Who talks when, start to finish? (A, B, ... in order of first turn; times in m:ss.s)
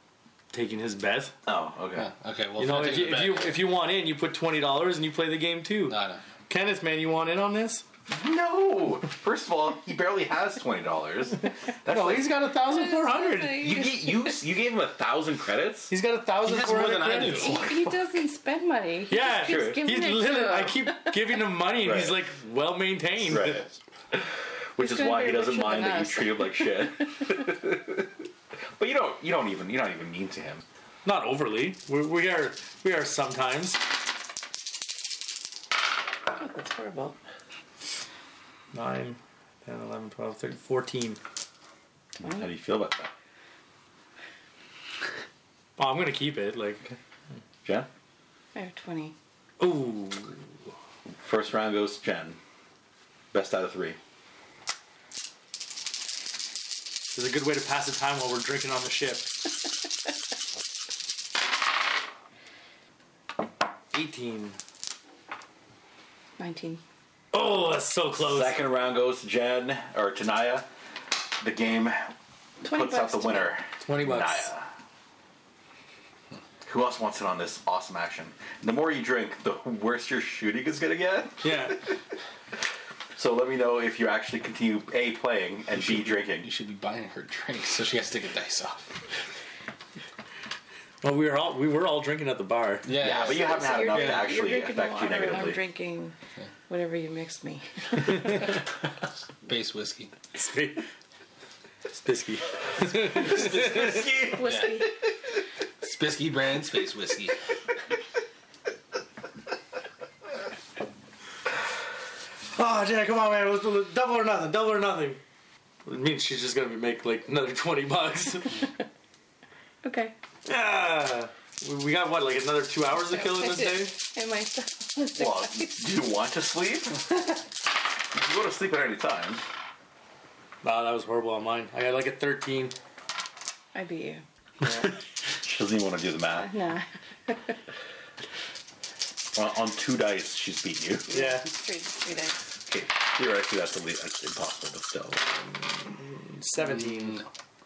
0:00.5-0:01.3 A
0:01.4-0:02.1 B
0:02.0-0:03.6 C
0:02.6-0:06.0 A
0:05.9-0:06.2 C
0:06.5-0:07.8 A
0:08.1-0:12.3 B
0:11.8-0:13.7 A
0:12.7-0:14.3 D
0:13.6-0:15.9 B
0:15.9-0:17.6 A
0:16.4-0:17.6 C
0:17.3-0:21.2 D
0:17.4-0:17.9 B
0:19.1-0:23.6 A
0:19.4-0:19.9 B
0:21.8-0:22.2 B
0:23.3-0:28.2 B
0:24.8-0:26.9 D
0:28.8-0:30.6 B
0:31.0-0:33.8 A
0:36.3-0:37.2 D
0:38.7-0:41.2 A
0:42.2-0:43.1 B
0:45.8-0:46.9 A
0:48.5-0:49.1 D
0:49.6-0:50.4 A
0:51.2-0:52.4 B
0:53.3-0:54.0 B
0:57.1-0:59.3 A
1:03.9-1:04.6 A
1:06.4-1:06.8 D
1:07.3-1:08.6 A
1:08.2-1:10.7 B
1:11.4-1:14.7 B
1:12.6-1:13.6 D
1:13.8-1:14.5 A
1:16.6-1:21.9 B
1:21.4-1:21.8 A
1:23.2-1:26.5 B
1:25.7-1:29.1 C
1:31.0-1:32.9 A
1:32.8-1:34.4 C
1:32.9-1:35.6 B
1:33.2-1:36.1 D
1:36.7-1:38.2 D
1:39.4-1:40.1 C
1:40.3-1:40.8 A
1:41.9-1:44.0 A
1:42.9-1:44.9 B
1:44.3-1:44.9 D
1:44.3-1:44.8 C
1:45.8-1:47.4 C
1:52.5-1:55.2 A
1:55.8-1:58.6 A
1:59.8-2:00.1 D
2:00.4-2:03.9 A
2:03.1-2:05.9 D
2:05.2-2:07.1 B
2:08.1-2:09.4 B
2:10.6-2:12.7 A
2:13.7-2:14.2 D
2:14.6-2:14.9 A
2:15.3-2:16.5 B
2:16.3-2:17.5 D
2:19.3-2:21.1 B
2:21.1-2:22.4 D
2:21.1-2:21.5 A
2:22.7-2:25.3 B
2:25.8-2:27.2 A
2:26.9-2:27.2 C